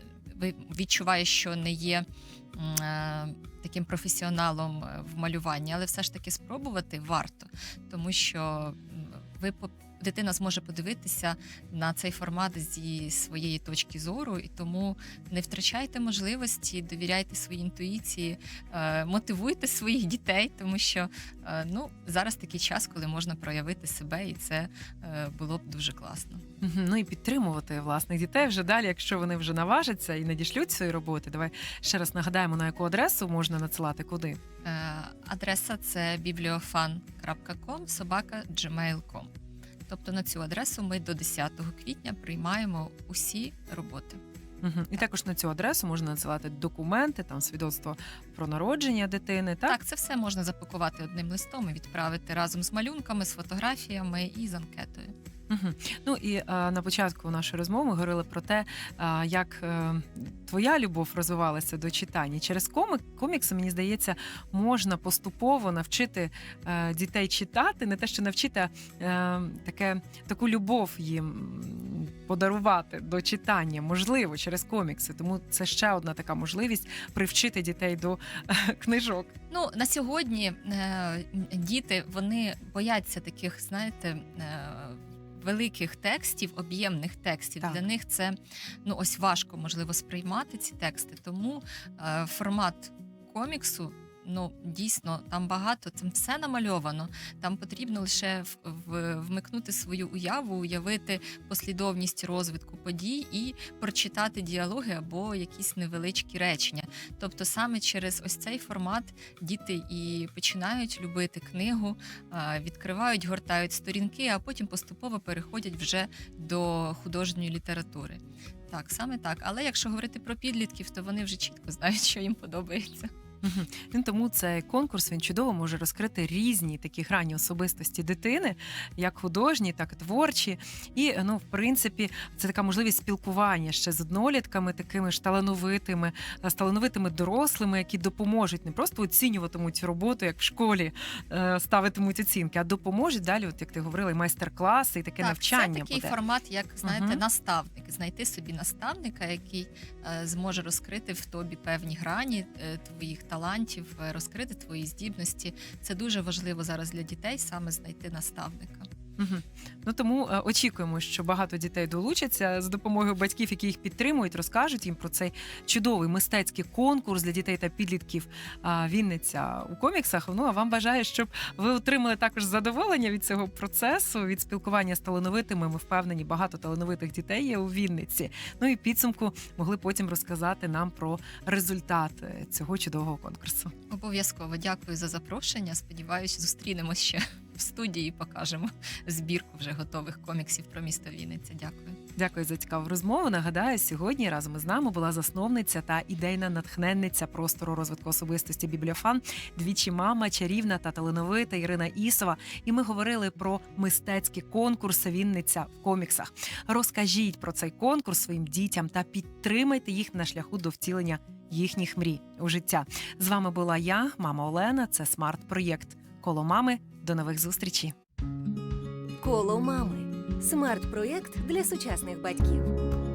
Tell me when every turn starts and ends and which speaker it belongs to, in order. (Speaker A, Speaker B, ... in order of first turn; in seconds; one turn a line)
Speaker A: 0.3-26.4
Speaker B: 26.6-34.4
Speaker A: 34.6-39.3
Speaker A: 39.9-44.2
Speaker B: 44.6-49.8
Speaker A: 49.7-55.1
Speaker B: 55.5-79.3
Speaker A: 79.5-118.2
Speaker A: 118.7-123.1
Speaker B: 123.4-146.1
Speaker A: 145.2-158.9
Speaker B: 146.8-147.2
Speaker B: 159.2-183.7
Speaker A: 183.9-192.0
Speaker B: 192.2-217.9
Speaker C: 219.2-222.8